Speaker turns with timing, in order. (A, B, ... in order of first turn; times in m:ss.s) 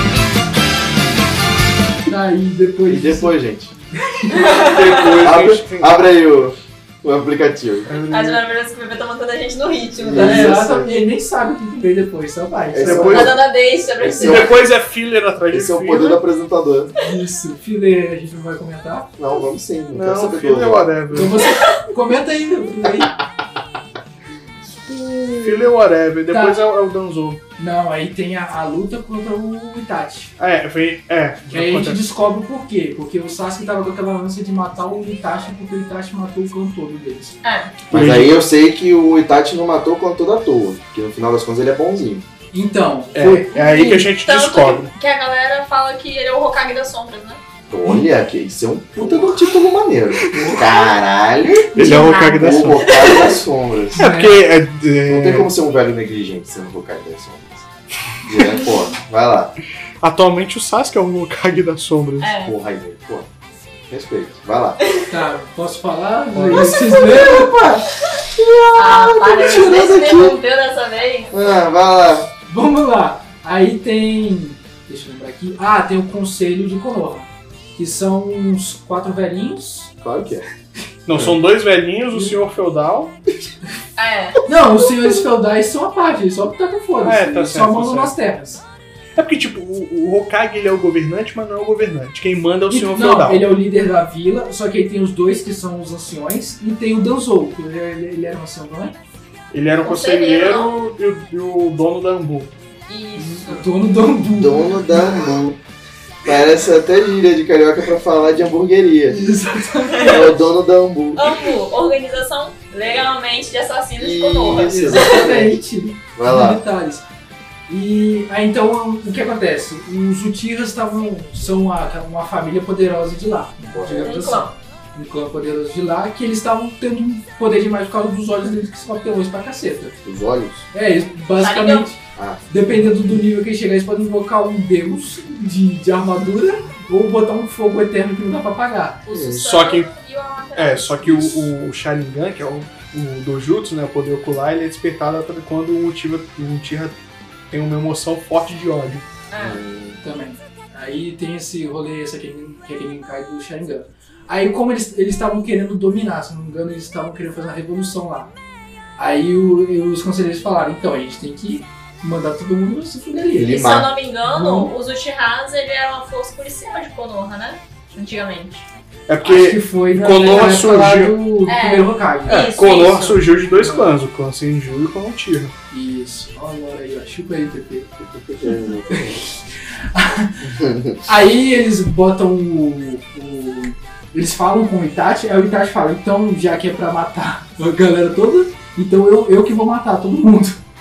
0:02.1-0:03.4 A
0:02.9-0:03.7 B
0:04.0-0:04.4 A
0:04.3-0:05.1 C
0:04.4-0:06.0 D
0:05.2-0:07.9 B
0:07.9-0:08.4 D
0:08.1-0:10.5 C
0:10.0-0:10.9 B
0:10.1-0:13.2 A
0:12.7-0:13.4 B
0:12.8-0:13.4 D
0:13.1-0:14.6 C
0:14.0-0:14.6 B
0:14.2-0:16.2 D
0:15.5-0:16.9 B
0:17.0-0:19.1 A
0:19.2-0:21.3 B
0:19.9-0:21.4 D
0:21.1-0:23.2 A
0:24.9-0:27.4 D
0:26.3-0:26.6 A
0:27.6-0:30.4 A
0:30.4-0:32.1 D
0:31.5-0:37.4 A
0:37.4-0:37.8 C
0:37.9-0:38.5 D
0:37.9-0:42.2 B
0:42.5-0:44.1 A
0:43.2-0:44.9 D
0:44.2-0:47.4 C
0:47.7-0:54.0 B
0:50.3-0:50.7 A
0:51.8-0:52.9 D
0:51.8-0:53.4 C
0:54.0-0:55.5 D
0:54.0-0:54.4 A
0:55.1-0:57.7 B
0:58.2-0:59.6 B
1:00.0-1:02.3 D
1:02.2-1:02.6 C
1:02.4-1:03.3 B
1:03.9-1:04.8 B
1:04.8-1:05.1 C
1:05.1-1:07.9 A
1:06.3-1:07.0 D
1:08.3-1:10.4 B
1:08.8-1:11.4 C
1:11.3-1:12.3 B
1:12.5-1:19.9 A
1:20.0-1:20.4 B
1:21.1-1:23.2 D
1:21.1-1:21.4 B
1:22.1-1:22.4 A
1:24.0-1:24.4 C
1:24.5-1:28.6 A
1:27.0-1:28.1 D
1:29.2-1:33.5 D
1:32.7-1:39.0 A
1:39.5-1:42.5 D
1:39.8-1:40.7 C
1:42.9-1:43.7 C
1:43.2-1:45.2 A
1:44.3-1:45.6 B
1:46.2-1:49.2 B
1:49.1-1:50.3 A
1:49.9-1:50.3 C
1:50.0-1:51.4 B
1:51.2-1:55.1 C
1:54.0-1:55.6 B
1:54.6-1:57.0 A
1:56.2-1:56.6 B
1:57.7-2:10.0 A
2:03.7-2:04.3 B
2:04.0-2:04.5 C
2:10.0-2:10.7 B
2:10.7-2:19.0 A
2:11.4-2:11.9 C
2:12.2-2:12.4 B
2:19.1-2:21.5 C
2:19.1-2:19.5 B
2:19.4-2:19.9 D
2:20.6-2:27.0 D
2:27.5-2:29.0 D
2:29.3-2:29.6 C
2:29.4-2:30.0 B
2:30.0-2:38.3 A
2:39.0-2:43.6 A
2:43.3-2:43.9 B
2:43.5-2:48.7 C
2:44.2-2:44.7 A
2:49.1-2:51.2 D
2:49.2-2:52.5 A
2:51.5-2:53.2 C
2:52.3-2:55.5 D
2:53.4-2:53.9 A
2:55.7-3:00.5 A
2:58.0-2:59.2 B
3:00.4-3:01.0 B
3:01.0-3:10.6 A